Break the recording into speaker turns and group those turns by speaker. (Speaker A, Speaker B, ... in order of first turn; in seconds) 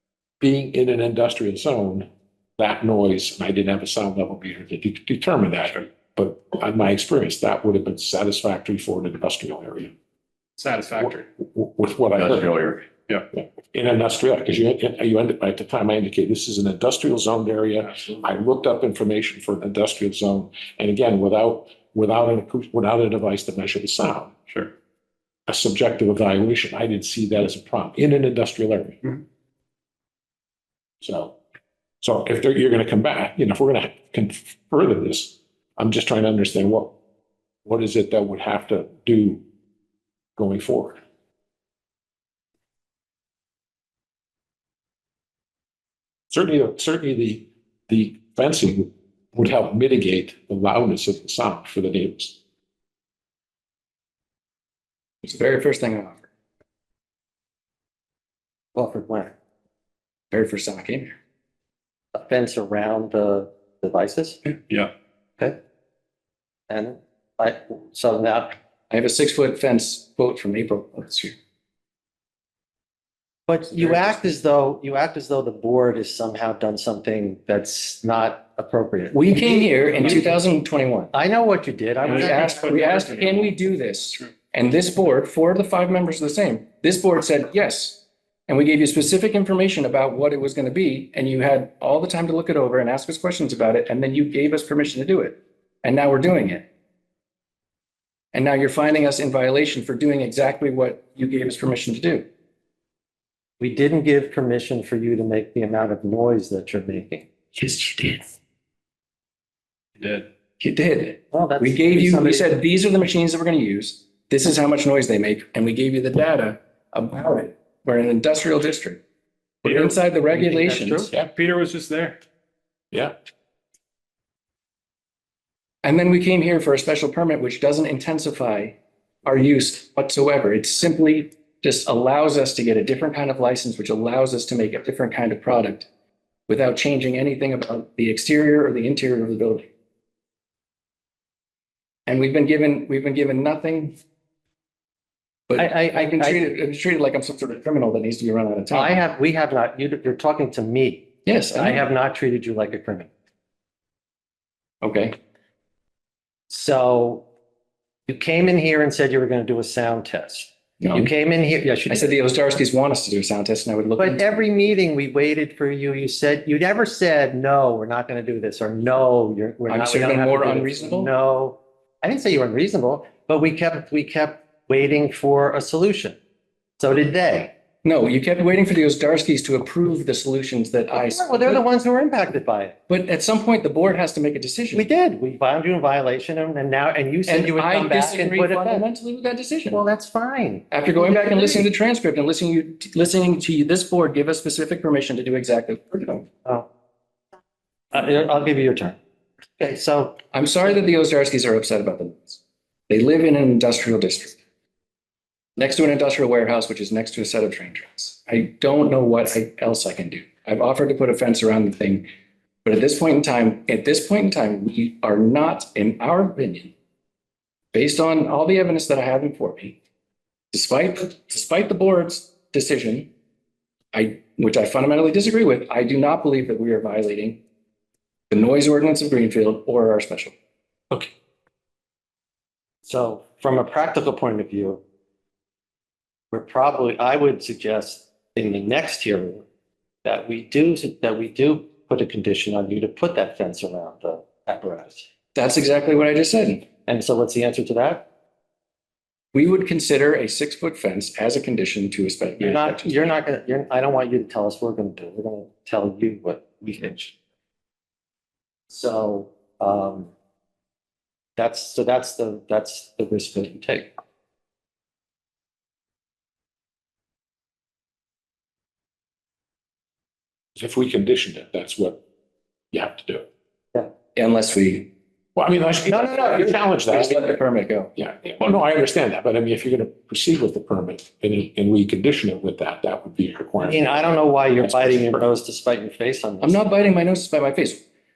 Speaker A: 0.4-9.9, 11.0-12.8, 13.3-24.4, 25.5-29.0, 31.0-31.4, 32.0-36.9, 37.6-39.4, 40.4-41.0, 46.3-52.4, 270.6-272.0, 272.7-273.3, 275.4-277.4, 278.0-284.0, 284.6-285.3
Speaker B: 10.6-11.3, 24.5-24.7, 82.0-83.5, 110.0-110.3, 121.1-122.2
Speaker C: 55.2-56.2, 60.3-61.1, 68.9-71.4, 79.1-81.1, 82.1-96.7, 98.3-102.3, 107.5-108.3, 110.6-119.0, 119.6-121.1, 125.8-135.9, 136.5-139.7, 142.1-144.0, 145.5-149.0, 151.3-151.8, 154.8-155.2, 160.8-161.1, 161.9-164.3, 169.7-171.1, 177.8-181.6, 182.9-184.9, 187.3-189.8, 190.7-196.3, 200.3-204.4, 205.6-212.1, 212.7-216.7, 217.7-219.8, 220.5-223.1, 223.9-227.4, 228.3-230.3, 245.3-246.7, 249.3-253.0, 274.1-274.9, 276.9-277.9, 286.4-287.8
Speaker D: 58.8-59.3, 62.1-64.4, 66.7-68.6, 73.5-80.3, 81.1-82.7, 103.6-107.3, 111.3-112.6, 120.3-121.1, 145.6-146.5, 148.7-153.1, 156.5-157.2, 158.1-162.1, 164.0-176.2, 176.8-177.5, 180.9-182.8, 184.7-188.8, 189.7-191.7, 197.9-199.0, 199.6-200.2, 232.8-234.8, 236.3-239.4, 240.0-245.1, 246.9-248.1, 252.4-257.2, 258.7-260.1, 261.4-263.9, 275.9-276.6, 283.6-286.6